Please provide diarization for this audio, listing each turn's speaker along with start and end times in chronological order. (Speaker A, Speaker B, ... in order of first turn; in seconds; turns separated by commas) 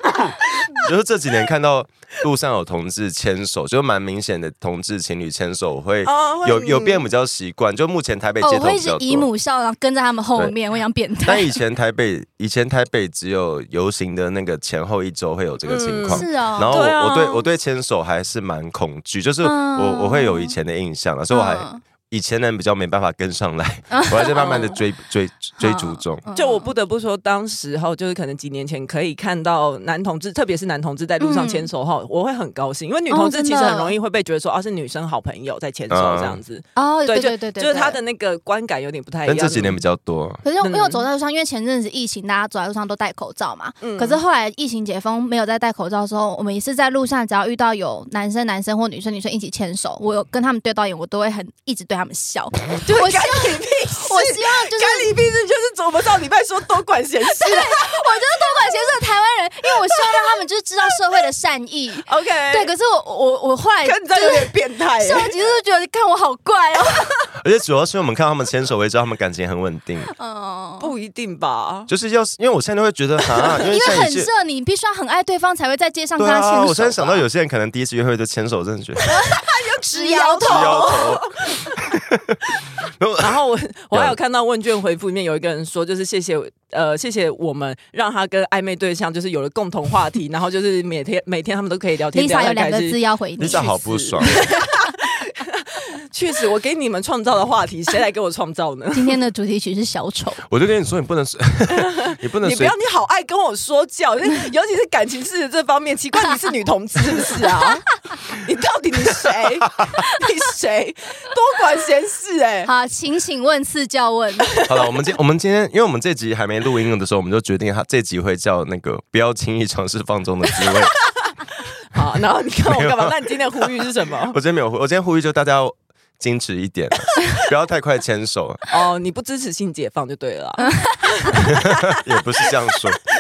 Speaker A: 0.8-9.3, Speaker B: 6.0-7.0, Speaker C: 8.4-11.6, Speaker A: 11.2-26.2, Speaker B: 15.6-17.4, Speaker C: 16.1-16.8, Speaker C: 19.4-20.6, Speaker C: 21.3-21.8, Speaker C: 23.9-24.6, Speaker B: 24.4-24.8, Speaker C: 25.6-26.7, Speaker B: 26.4-39.8, Speaker C: 31.2-31.7, Speaker C: 33.1-34.0, Speaker A: 35.9-36.4, Speaker C: 36.8-38.0, Speaker A: 39.3-40.4, Speaker C: 40.4-55.1, Speaker B: 40.6-41.0, Speaker B: 43.8-44.2, Speaker B: 52.8-57.9, Speaker C: 57.3-67.3, Speaker B: 62.1-62.7, Speaker B: 63.8-65.4, Speaker A: 67.4-70.1, Speaker C: 70.1-70.9, Speaker B: 70.8-71.9, Speaker A: 71.9-74.3, Speaker C: 73.6-77.2, Speaker A: 76.2-79.0, Speaker C: 79.1-81.0, Speaker B: 79.3-81.6, Speaker A: 80.5-81.3, Speaker A: 81.8-82.4, Speaker A: 83.0-83.4, Speaker B: 83.2-99.2, Speaker A: 83.9-84.2, Speaker C: 92.1-93.8, Speaker A: 93.4-94.5, Speaker C: 98.9-100.4, Speaker A: 100.5-102.7, Speaker B: 101.7-112.7, Speaker C: 112.6-114.5, Speaker A: 114.6-120.9, Speaker B: 121.9-124.4, Speaker A: 122.7-128.6, Speaker B: 128.7-132.0, Speaker C: 130.6-131.3, Speaker A: 131.4-133.0